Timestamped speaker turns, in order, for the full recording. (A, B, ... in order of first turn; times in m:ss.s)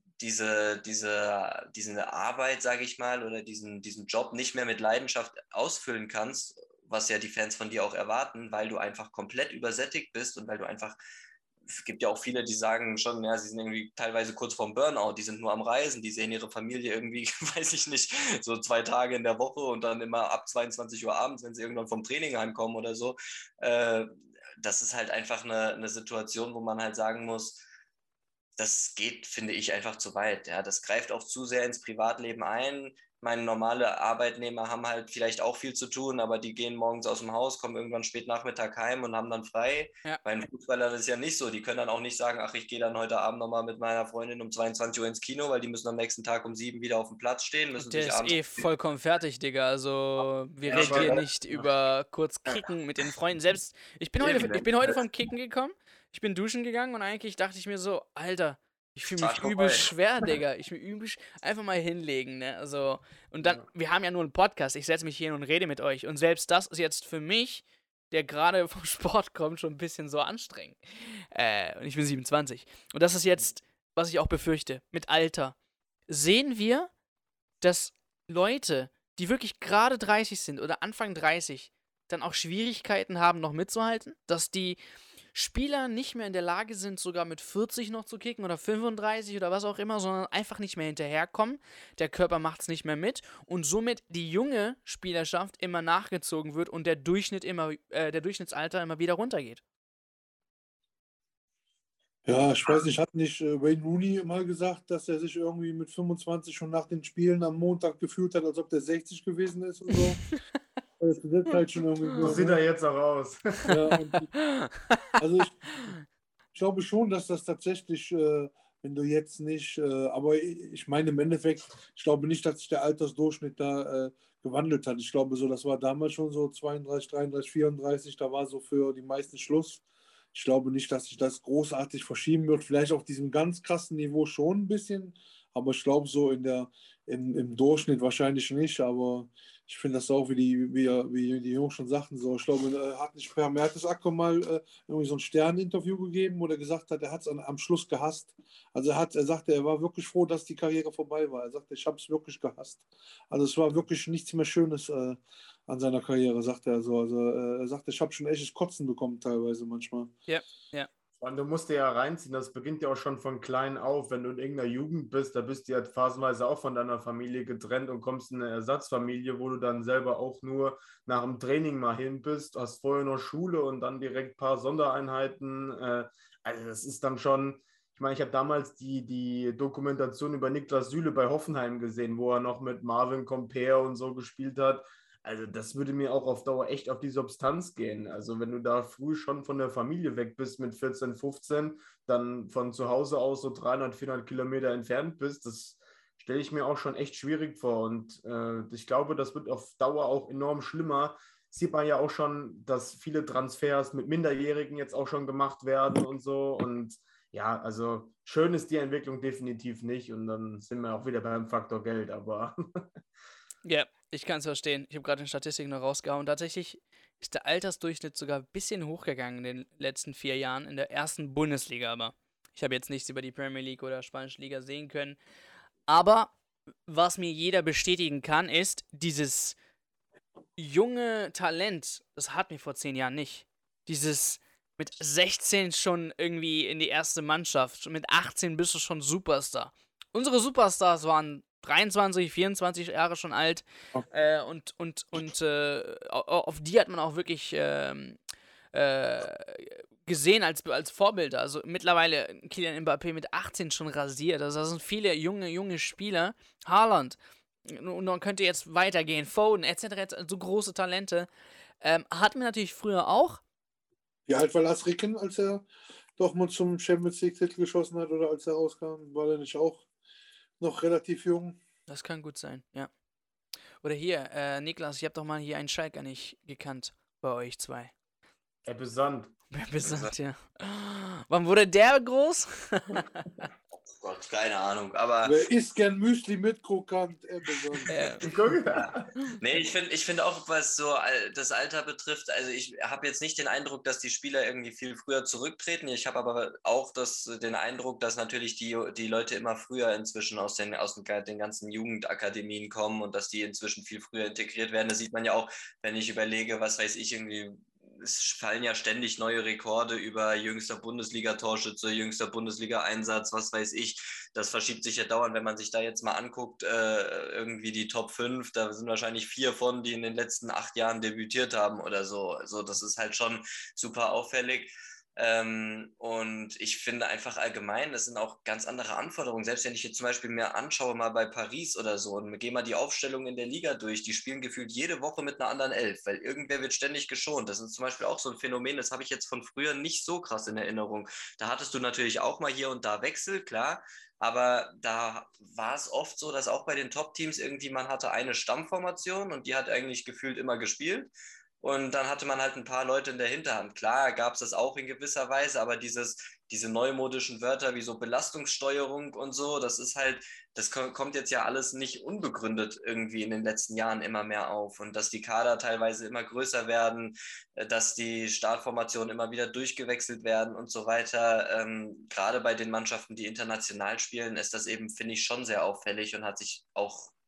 0:00.2-0:11.0 A
0:11.6-0:24.1 A
0:24.6-0:27.6 A
0:28.6-0:48.6 A
0:47.8-1:15.5 B
0:50.6-0:51.2 A
0:50.7-0:51.7 C
0:54.2-0:55.0 A
0:59.1-0:59.9 A
1:16.1-1:16.9 B
1:17.6-1:24.8 B
1:25.3-1:39.6 B
1:42.2-1:50.2 D
1:51.0-1:52.6 D
1:52.2-1:53.8 C
1:53.7-1:54.3 D
1:54.4-1:55.0 B
1:55.2-1:55.8 D
1:56.5-2:40.1 D
2:40.3-2:40.9 B
2:41.2-3:32.5 C
3:33.6-3:45.2 B
3:45.9-3:46.3 B
3:46.9-3:49.6 B
3:50.6-4:08.2 B
4:08.7-4:21.3 B
4:21.8-4:23.4 B
4:24.3-4:25.6 D
4:26.2-4:29.8 D
4:30.6-4:31.6 D
4:31.9-4:32.9 B
4:33.8-4:37.9 B
4:38.7-4:39.3 C
4:39.5-4:43.4 B
4:39.8-4:40.1 A
4:43.7-4:45.4 A
4:45.2-4:47.9 D
4:47.9-4:48.2 B
4:48.2-4:49.1 C
4:48.8-6:17.1 A